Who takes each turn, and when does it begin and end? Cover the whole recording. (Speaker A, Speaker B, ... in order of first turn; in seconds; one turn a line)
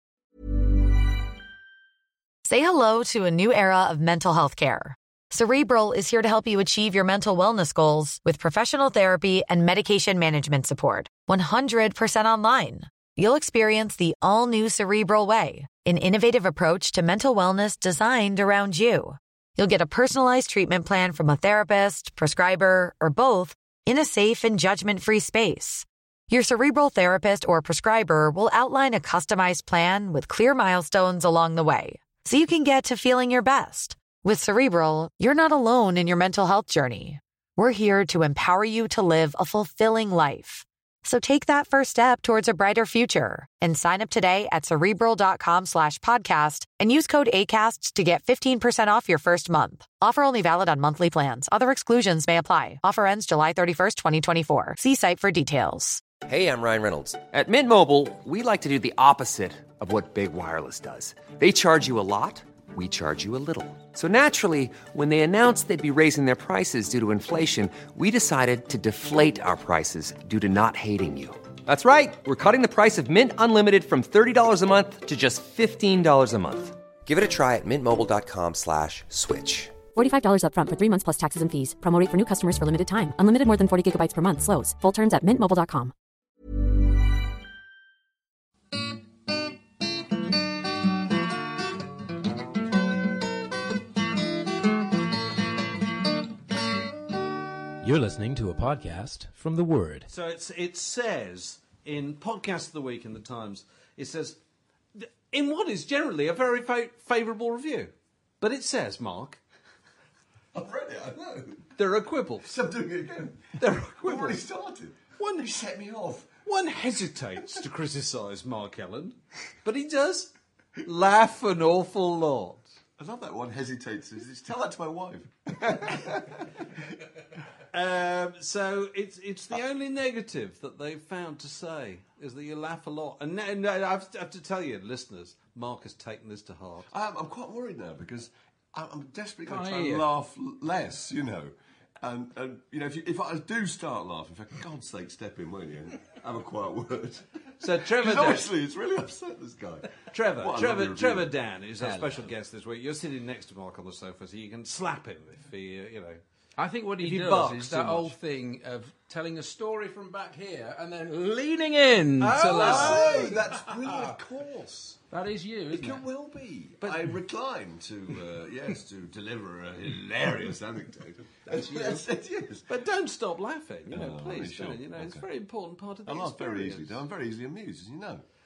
Speaker A: 2.4-56.0
Speaker B: 56.2-79.8
Speaker C: 79.9-85.9
Speaker D: 97.8-100.1
Speaker E: 100.1-104.4
Speaker E: 105.0-109.4
Speaker F: 110.5-111.7
Speaker E: 111.8-112.6
Speaker F: 112.5-116.3
Speaker E: 113.6-114.4
Speaker E: 116.5-122.7
Speaker F: 123.0-127.0
Speaker E: 127.7-136.9
Speaker F: 136.9-151.3
Speaker G: 139.5-140.1
Speaker E: 147.6-148.5
Speaker E: 150.1-156.2
Speaker G: 151.8-152.3
Speaker G: 156.6-164.1
Speaker E: 157.0-158.1
Speaker E: 162.2-163.4
Speaker F: 162.5-165.0
Speaker G: 165.1-166.0
Speaker F: 165.7-172.7
Speaker E: 166.8-167.1
Speaker G: 171.5-172.1
Speaker E: 172.7-177.0
Speaker F: 173.9-175.2
Speaker F: 176.1-178.2